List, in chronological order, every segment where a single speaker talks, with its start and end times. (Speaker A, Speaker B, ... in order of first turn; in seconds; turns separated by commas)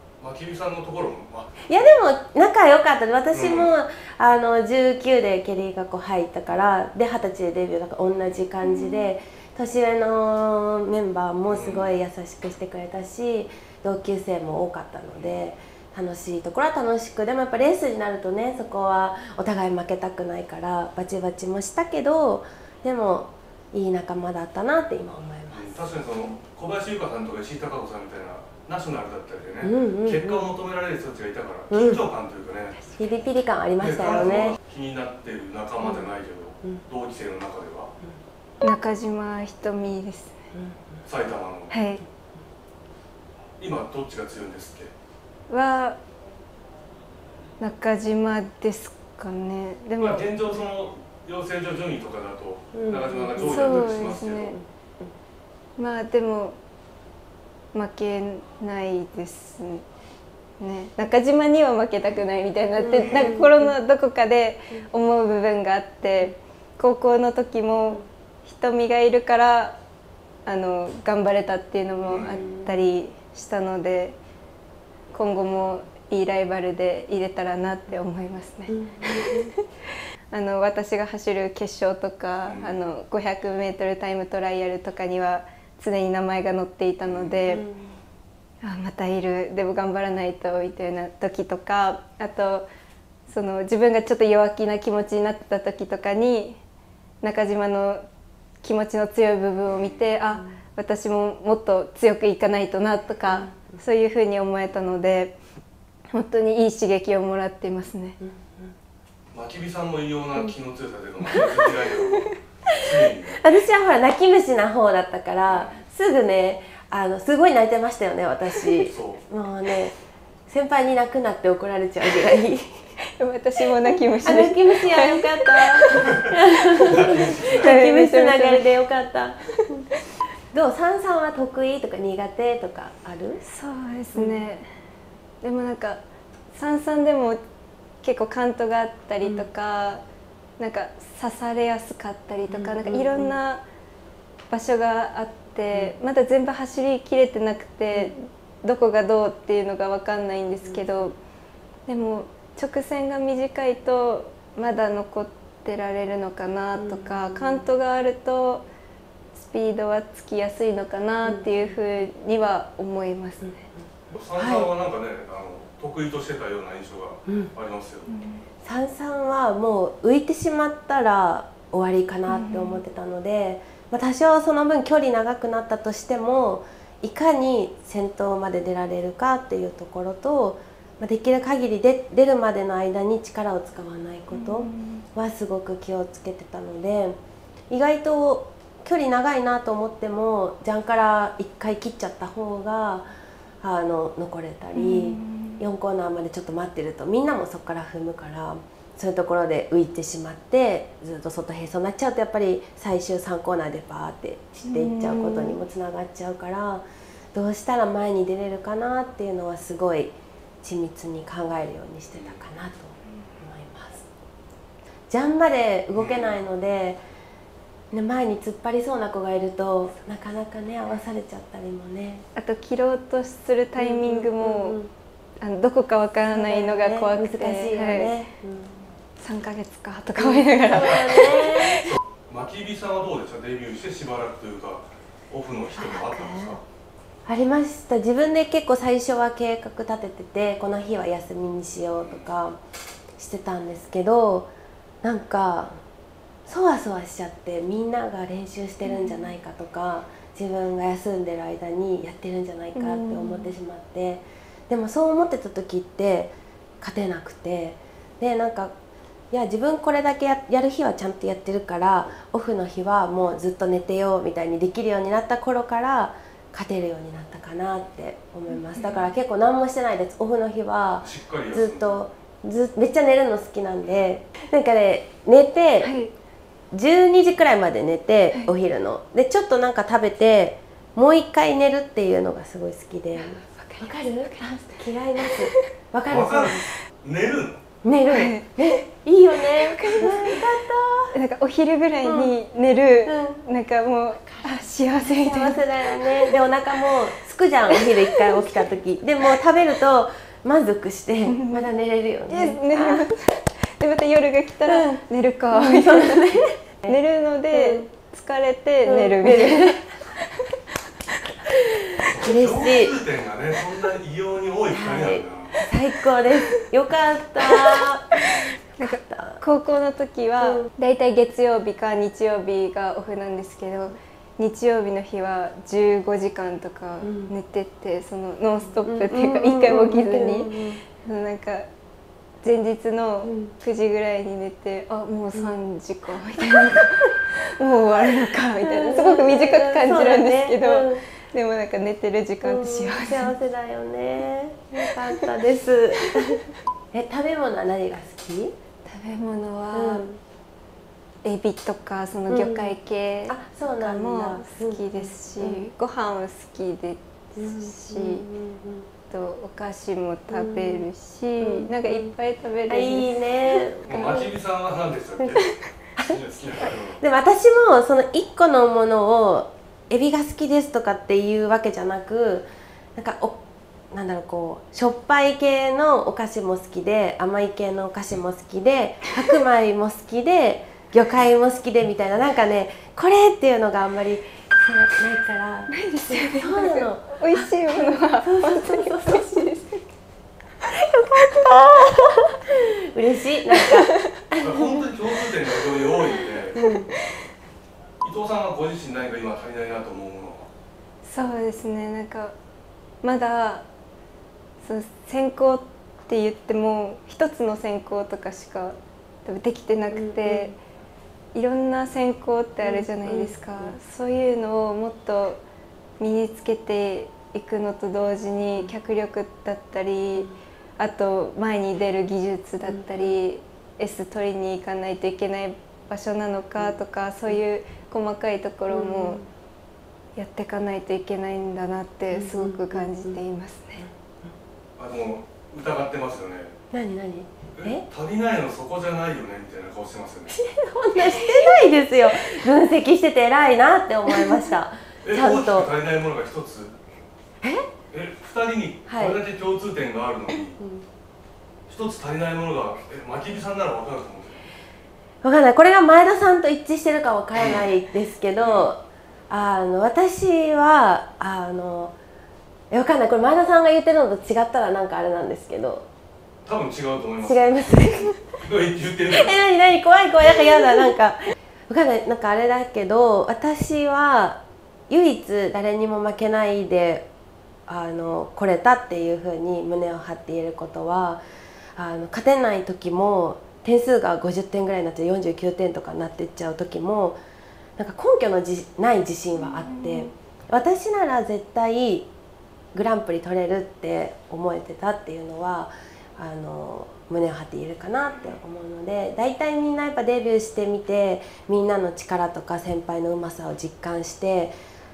Speaker A: 0.2-1.8, Speaker B: 1.7-25.8, Speaker A: 3.3-3.7, Speaker C: 8.6-9.1, Speaker A: 11.5-11.9, Speaker A: 25.5-32.8, Speaker B: 29.6-30.5, Speaker B: 31.7-32.0, Speaker B: 33.0-34.6, Speaker A: 33.8-37.9, Speaker B: 35.8-36.1, Speaker C: 38.6-40.4, Speaker B: 40.5-41.0, Speaker A: 41.1-41.7, Speaker C: 41.7-42.0, Speaker A: 43.6-44.9, Speaker C: 45.5-46.0, Speaker C: 47.6-50.3, Speaker A: 50.0-54.5, Speaker B: 52.7-55.1, Speaker C: 53.4-54.6, Speaker C: 55.8-56.6, Speaker C: 57.7-59.9, Speaker C: 60.6-69.8, Speaker B: 62.8-63.8, Speaker A: 63.1-63.3, Speaker C: 70.5-74.2, Speaker A: 72.1-72.4, Speaker B: 72.2-72.9, Speaker C: 75.1-79.7, Speaker B: 78.7-79.5, Speaker C: 80.3-87.7, Speaker A: 82.5-82.8, Speaker A: 87.0-87.4, Speaker B: 87.5-88.0, Speaker C: 88.6-92.7, Speaker C: 93.3-96.6, Speaker C: 97.2-98.0, Speaker C: 98.6-105.3, Speaker A: 99.7-100.0, Speaker B: 103.3-103.8, Speaker C: 106.1-108.2, Speaker B: 108.2-108.7, Speaker A: 109.3-113.4, Speaker B: 113.4-120.0, Speaker A: 115.5-115.8, Speaker A: 118.8-119.2, Speaker B: 120.5-122.9, Speaker C: 123.2-126.0, Speaker B: 123.8-129.9, Speaker A: 126.1-127.7, Speaker C: 127.6-128.7, Speaker B: 130.5-133.4, Speaker C: 133.4-134.7, Speaker B: 134.2-134.4, Speaker C: 135.4-136.0, Speaker C: 136.5-137.4, Speaker C: 138.0-140.0, Speaker B: 139.2-139.5, Speaker C: 140.6-143.6, Speaker B: 142.5-143.4, Speaker C: 144.5-151.2, Speaker B: 150.7-151.1, Speaker C: 151.9-158.7, Speaker B: 156.8-157.7, Speaker C: 159.4-163.6, Speaker B: 161.2-161.8, Speaker A: 164.1-168.2, Speaker B: 164.4-164.7, Speaker C: 168.1-168.4, Speaker B: 168.6-187.2, Speaker C: 172.3-172.8, Speaker C: 184.3-185.1, Speaker B: 187.7-193.1, Speaker B: 193.6-214.1, Speaker C: 194.8-195.6, Speaker C: 204.6-205.6, Speaker B: 215.1-217.0, Speaker A: 215.9-216.3, Speaker B: 217.9-222.2, Speaker C: 222.4-224.8, Speaker B: 223.8-224.9, Speaker C: 225.4-228.1, Speaker B: 226.3-228.9, Speaker C: 229.2-231.7, Speaker B: 230.2-231.9, Speaker A: 231.8-236.6, Speaker B: 235.8-236.6, Speaker B: 237.3-242.6, Speaker B: 243.2-244.5, Speaker B: 245.0-245.8, Speaker B: 246.5-258.7, Speaker C: 248.8-249.3, Speaker C: 252.8-253.5, Speaker B: 259.3-275.9, Speaker C: 268.5-269.1, Speaker A: 271.0-272.1, Speaker C: 275.8-276.1, Speaker B: 276.7-286.7, Speaker C: 283.2-285.6, Speaker A: 286.1-287.6, Speaker B: 287.8-291.1, Speaker C: 288.1-288.8, Speaker C: 289.5-290.4, Speaker C: 291.1-296.3, Speaker B: 292.0-292.4, Speaker B: 293.1-293.4, Speaker B: 295.2-303.1, Speaker C: 297.8-298.4, Speaker C: 301.3-301.7, Speaker C: 302.3-309.8, Speaker B: 304.7-304.9, Speaker B: 305.5-307.0, Speaker B: 307.5-307.9, Speaker B: 308.9-309.9, Speaker B: 311.5-313.0, Speaker A: 312.0-315.6, Speaker B: 314.7-318.2, Speaker C: 318.2-331.7, Speaker B: 318.8-319.4, Speaker B: 320.4-320.7, Speaker B: 327.0-327.3, Speaker B: 328.8-330.8, Speaker C: 332.4-343.3, Speaker B: 333.2-333.5, Speaker B: 336.4-336.8, Speaker B: 338.0-341.0, Speaker B: 342.4-348.5, Speaker C: 348.9-350.1, Speaker B: 349.7-350.2, Speaker C: 351.2-358.2, Speaker B: 352.3-355.7, Speaker B: 357.4-358.9, Speaker C: 359.1-363.6, Speaker B: 360.3-360.9, Speaker B: 361.4-362.1, Speaker B: 362.7-364.3, Speaker A: 363.9-365.4, Speaker A: 366.0-367.0, Speaker B: 367.0-373.4, Speaker B: 373.9-389.5, Speaker C: 385.7-389.8, Speaker B: 390.7-394.9, Speaker C: 393.6-394.1, Speaker A: 394.4-396.6, Speaker B: 396.6-396.9, Speaker A: 398.0-400.5, Speaker C: 401.0-402.4, Speaker C: 403.0-403.7, Speaker C: 404.6-410.6, Speaker B: 409.9-410.6, Speaker C: 411.3-415.4, Speaker B: 412.6-413.8, Speaker C: 416.0-429.2, Speaker B: 422.6-423.2, Speaker B: 426.6-427.4, Speaker B: 428.7-429.3, Speaker C: 430.2-433.9, Speaker B: 432.1-433.2, Speaker B: 433.8-434.3, Speaker A: 434.8-436.5, Speaker B: 436.7-437.8, Speaker A: 437.5-440.4, Speaker B: 440.3-445.7, Speaker A: 445.0-446.8, Speaker B: 447.4-447.7, Speaker A: 447.9-450.6, Speaker B: 448.9-449.2, Speaker B: 450.6-450.9, Speaker A: 451.7-454.4, Speaker B: 455.2-462.0, Speaker A: 458.4-458.7, Speaker B: 462.7-465.9, Speaker A: 466.5-467.7, Speaker B: 467.2-468.2, Speaker A: 468.4-469.4, Speaker B: 469.1-477.1, Speaker B: 477.7-481.2, Speaker B: 481.8-487.2, Speaker B: 487.8-492.1, Speaker C: 489.4-490.1, Speaker B: 492.7-504.6